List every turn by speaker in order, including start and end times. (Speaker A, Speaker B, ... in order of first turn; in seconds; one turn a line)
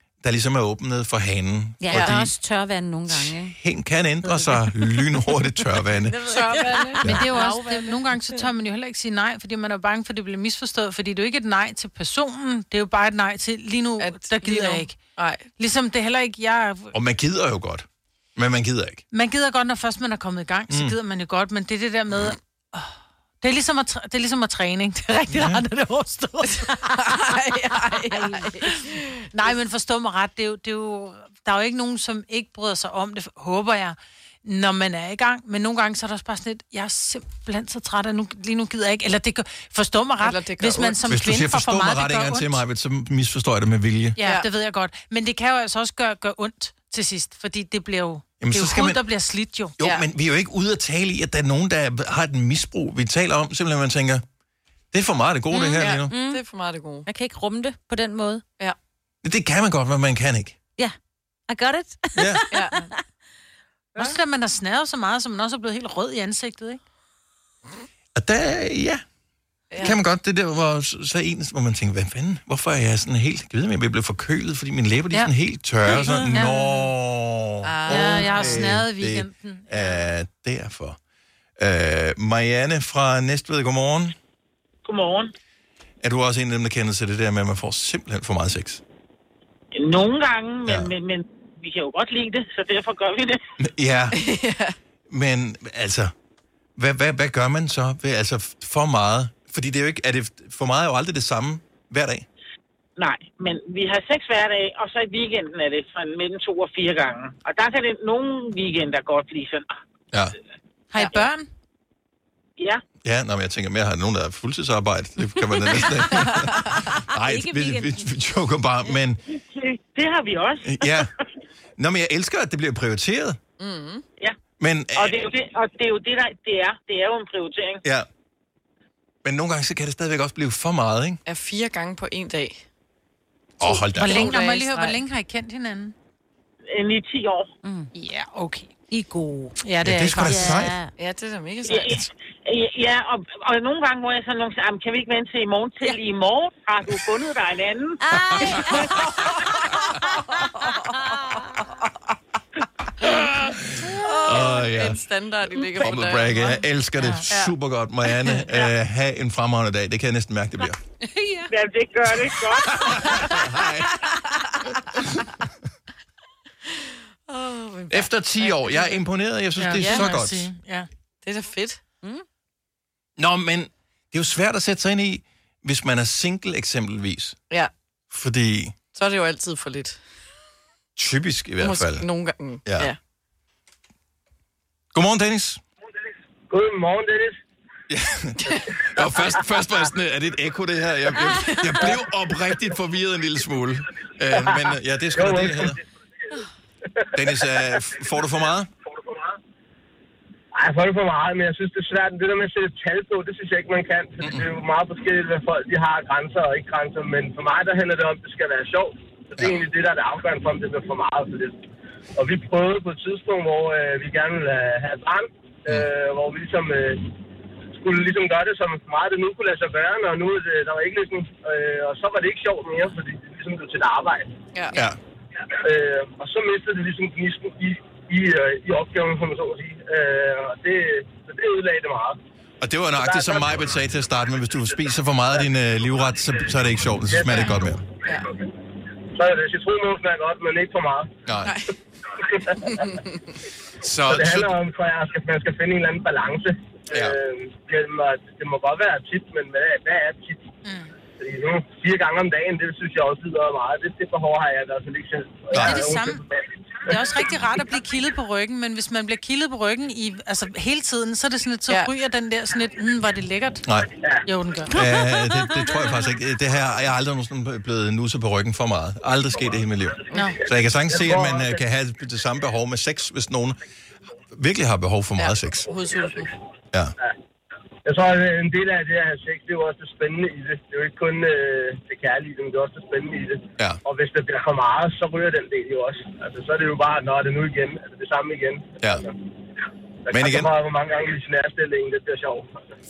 Speaker A: 0.2-2.3
Speaker B: 1.8-3.5
Speaker C: 1.9-2.2
Speaker A: 3.1-6.2
Speaker C: 6.2-7.8
Speaker B: 6.3-8.0
Speaker D: 7.0-15.0
Speaker C: 14.0-15.5
Speaker D: 15.6-16.9
Speaker A: 16.9-19.0
Speaker D: 19.1-27.3
Speaker A: 20.7-20.9
Speaker A: 25.3-25.6
Speaker C: 26.5-29.2
Speaker D: 27.9-42.6
Speaker C: 40.2-41.1
Speaker A: 41.1-44.2
Speaker D: 44.2-49.7
Speaker C: 44.2-44.5
Speaker A: 48.4-49.0
Speaker A: 49.8-54.2
Speaker C: 49.8-50.0
Speaker A: 54.9-56.1
Speaker B: 55.5-56.4
Speaker C: 55.8-57.1
Speaker B: 57.0-58.4
Speaker A: 59.2-60.6
Speaker B: 61.5-62.9
Speaker A: 62.1-62.4
Speaker C: 62.5-62.8
Speaker D: 64.0-66.8
Speaker A: 68.1-69.0
Speaker C: 69.7-70.0
Speaker A: 69.8-81.0
Speaker D: 75.9-76.8
Speaker C: 77.6-78.7
Speaker D: 77.9-80.0
Speaker A: 81.6-84.2
Speaker E: 84.8-85.3
Speaker A: 86.0-88.8
Speaker E: 89.7-93.4
Speaker A: 90.7-90.9
Speaker A: 93.6-94.2
Speaker C: 94.1-94.8
Speaker A: 95.1-96.1
Speaker A: 96.8-102.2
Speaker E: 103.0-109.7
Speaker D: 110.9-111.5
Speaker A: 113.0-119.2
Speaker B: 115.6-118.1
Speaker C: 116.2-116.5
Speaker E: 119.5-121.0
Speaker A: 120.6-121.1
Speaker A: 121.8-123.4
Speaker C: 123.6-124.0
Speaker A: 124.6-125.3
Speaker E: 125.0-127.8
Speaker A: 129.2-131.2
Speaker C: 131.2-132.6
Speaker A: 133.6-134.3
Speaker C: 133.6-135.0
Speaker D: 133.9-135.9
Speaker E: 136.7-137.5
Speaker B: 137.6-137.9
Speaker D: 137.9-140.7
Speaker A: 139.8-140.8
Speaker B: 140.2-140.9
Speaker C: 141.0-142.0
Speaker E: 141.7-148.0
Speaker B: 148.1-149.1
Speaker C: 148.9-149.3
Speaker B: 150.0-151.6
Speaker C: 150.4-150.7
Speaker A: 153.0-155.0
Speaker C: 153.9-156.6
Speaker A: 155.7-160.8
Speaker D: 157.0-157.2
Speaker C: 157.2-157.5
Speaker C: 158.2-158.6
Speaker B: 161.0-161.5
Speaker E: 161.5-162.9
Speaker A: 162.2-164.0
Speaker C: 166.7-169.0
Speaker A: 167.9-170.5
Speaker D: 169.6-170.9
Speaker C: 169.7-170.2
Speaker C: 171.2-171.8
Speaker A: 173.2-177.4
Speaker A: 178.1-178.7
Speaker C: 178.9-180.0
Speaker A: 181.0-182.1
Speaker C: 181.6-183.0
Speaker A: 182.6-182.9
Speaker A: 184.9-185.6
Speaker F: 186.5-187.4
Speaker A: 187.9-195.8
Speaker C: 188.4-188.7
Speaker F: 189.0-189.2
Speaker C: 191.4-191.9
Speaker F: 194.3-195.8
Speaker F: 197.0-198.1
Speaker A: 197.1-198.7
Speaker F: 198.9-199.3
Speaker F: 200.5-211.6
Speaker A: 209.4-209.6
Speaker F: 212.2-217.1
Speaker F: 217.7-224.3
Speaker C: 224.5-224.8
Speaker A: 224.7-225.0
Speaker F: 225.5-232.2
Speaker A: 232.6-237.8
Speaker F: 232.9-233.8
Speaker F: 234.5-235.4
Speaker F: 237.0-238.2
Speaker F: 239.1-241.1
Speaker A: 241.2-241.6
Speaker C: 241.4-241.7
Speaker F: 242.2-242.8
Speaker C: 242.7-243.1
Speaker A: 243.8-244.5
Speaker F: 244.1-250.4
Speaker A: 246.9-247.2
Speaker D: 250.6-250.9
Speaker F: 251.2-256.9
Speaker D: 255.5-256.2
Speaker A: 255.5-255.9
Speaker D: 256.9-263.6
Speaker D: 264.2-264.9
Speaker A: 264.7-273.6
Speaker D: 270.1-270.4
Speaker F: 270.9-271.6
Speaker A: 274.3-275.7
Speaker C: 275.6-276.3
Speaker F: 277.8-289.1
Speaker F: 290.1-292.5
Speaker A: 290.1-290.5